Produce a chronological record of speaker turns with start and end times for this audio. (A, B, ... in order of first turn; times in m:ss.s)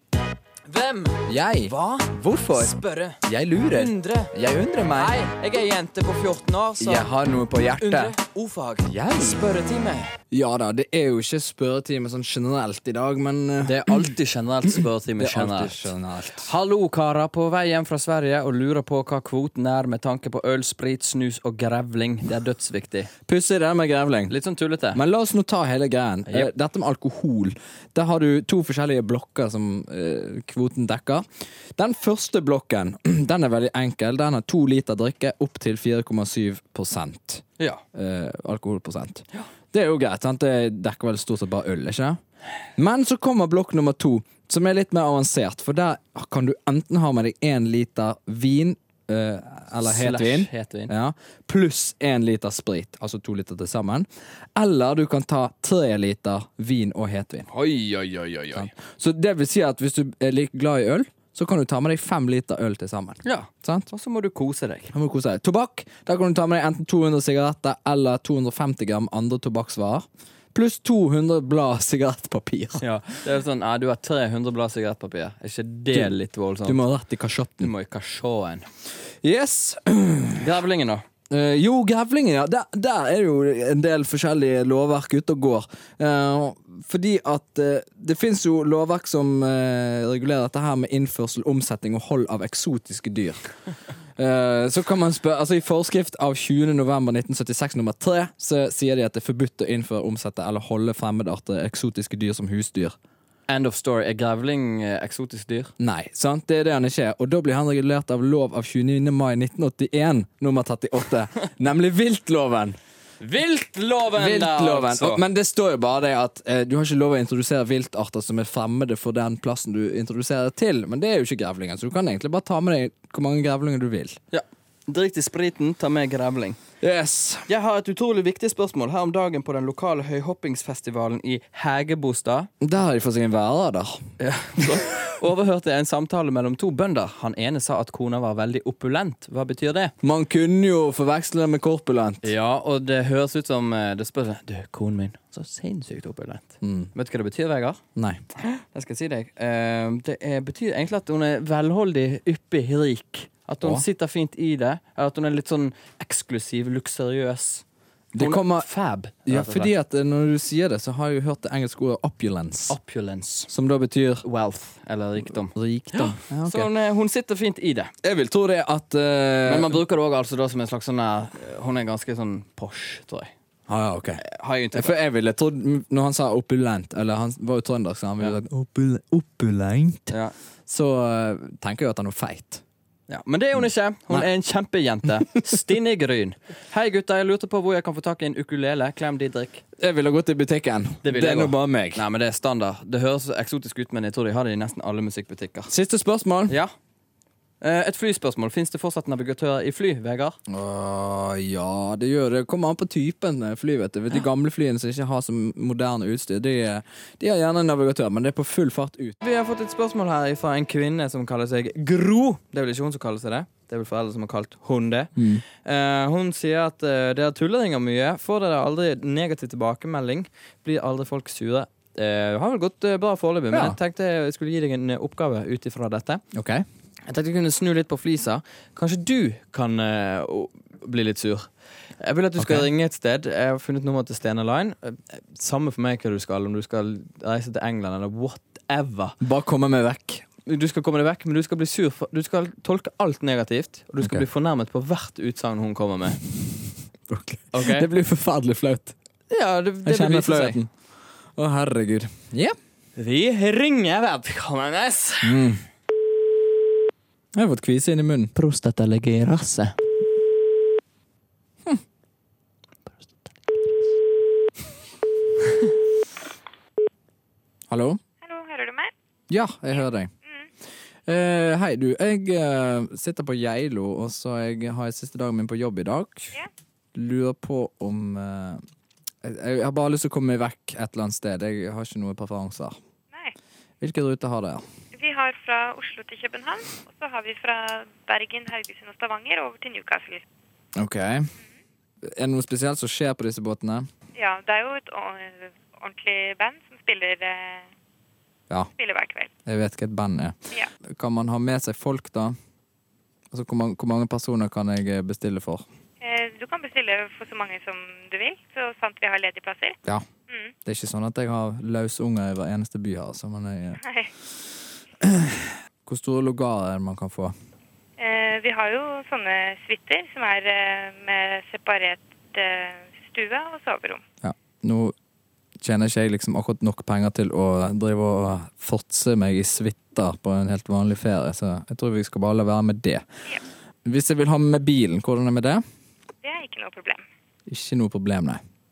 0:00.7-0:04.3 A
0:01.3-0:05.2 B
0:05.0-0:07.1 A
0:06.8-0:08.2 B
0:07.8-0:10.1 A
0:09.0-0:09.4 B
0:10.3-0:14.1 B
0:13.6-0:15.9 A
0:15.2-0:16.5 B
0:16.4-0:23.1 A
0:23.3-0:24.3 B
0:24.3-0:25.0 A
0:24.9-0:31.2 B
0:31.8-0:42.2 B
0:42.8-0:57.5 B
0:49.8-0:50.9 A
0:57.5-0:58.7 A
0:58.5-1:03.9 B
1:03.2-1:04.9 A
1:04.9-1:12.8 B
1:12.8-1:16.8 A
1:16.6-1:17.7 B
1:17.6-1:18.6 A
1:19.2-1:20.5 B
1:20.4-1:21.0 A
1:21.3-1:33.4 B
1:34.2-1:43.0 B
1:43.5-1:45.7 A
1:45.8-1:52.8 B
1:53.2-1:55.2 A
1:54.2-2:04.2 B
2:04.3-2:06.6 A
2:06.8-2:07.5 B
2:07.5-2:12.5 A
2:12.6-2:14.0 B
2:14.2-2:19.9 A
2:20.0-2:22.3 B
2:22.2-2:27.8 A
2:26.6-2:26.9 B
2:28.0-2:28.2 B
2:28.4-2:37.6 A
2:38.1-2:38.7 B
2:38.2-2:39.7 A
2:39.3-2:42.8 B
2:42.7-2:43.5 A
2:43.5-2:44.2 B
2:44.2-2:47.9 A
2:45.4-2:46.7 B
2:48.0-2:49.8 B
2:49.4-2:53.3 A
2:53.7-3:00.2 B
2:54.2-2:55.0 A
3:00.1-3:00.3 A
3:00.7-3:02.6 B
3:03.1-3:09.6 A
3:09.8-3:12.0 B
3:11.0-3:15.7 A
3:15.7-3:16.6 B
3:17.6-3:20.4 A
3:20.5-3:29.2 B
3:29.2-3:46.2 A
3:35.2-3:35.4 B
3:43.5-3:43.8 B
3:46.3-3:46.6 B
3:47.1-3:51.5 A
3:52.0-3:59.2 A
3:52.4-3:52.7 B
3:59.2-4:00.2 B
4:00.5-4:06.2 A
4:07.1-4:09.0 B
4:07.5-4:07.9 A
4:09.3-4:10.6 A
4:09.8-4:10.7 B
4:11.4-4:12.6 B
4:13.0-4:15.4 A
4:15.2-4:15.6 B
4:17.4-4:18.3 B
4:18.4-4:19.8 A
4:27.7-4:28.0 B
4:28.2-4:28.9 C
4:29.3-4:30.1 B
4:31.1-4:36.4 B
4:37.0-4:38.6 B
4:39.2-4:42.8 B
4:43.8-4:44.6 B
4:44.9-4:50.2 C
4:50.8-4:51.3 B
4:52.1-4:53.9 B
4:54.2-4:57.7 C
4:58.8-4:59.3 C
4:59.5-5:00.4 B
5:00.9-5:02.4 B
5:03.3-5:05.6 B
5:06.0-5:09.8 C
5:10.3-5:10.5 C
5:10.6-5:13.8 B
5:13.8-5:14.1 C
5:15.0-5:17.3 B
5:18.0-5:24.0 C
5:24.2-5:24.9 B
5:25.6-5:33.0 B
5:33.8-5:35.6 B
5:36.2-5:37.0 C
5:37.5-5:38.4 B